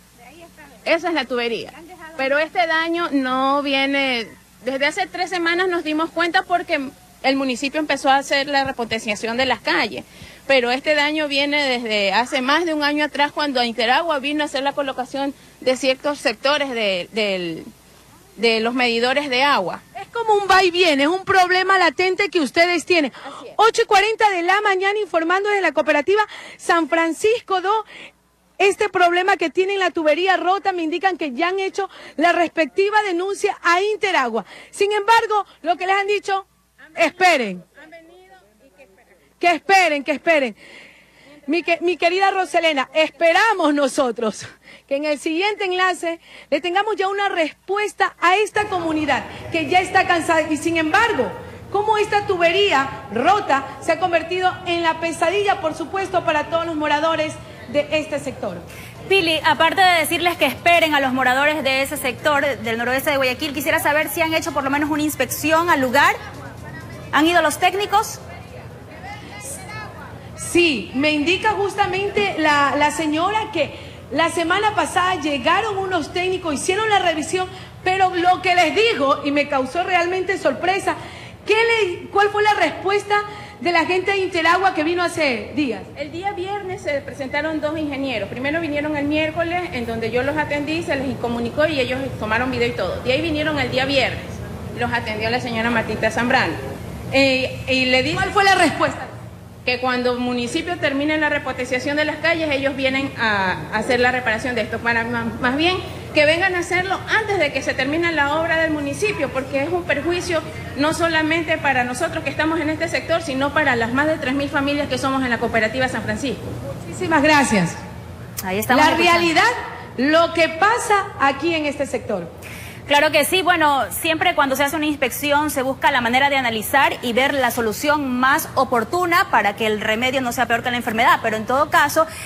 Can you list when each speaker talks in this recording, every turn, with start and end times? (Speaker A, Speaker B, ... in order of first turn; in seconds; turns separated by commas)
Speaker A: 0.8-17.7, Speaker A: 18.4-19.8, Speaker B: 19.9-27.8, Speaker B: 28.6-37.6, Speaker B: 39.4-40.6, Speaker B: 41.5-58.6, Speaker C: 59.1-63.1, Speaker C: 63.6-65.4, Speaker C: 67.8-68.1, Speaker B: 70.4-85.9, Speaker A: 85.9-96.6, Speaker A: 97.1-98.3, Speaker B: 98.1-99.1, Speaker A: 99.6-116.4, Speaker B: 116.8-117.8, Speaker B: 118.7-122.3, Speaker C: 122.9-129.2, Speaker C: 129.8-132.0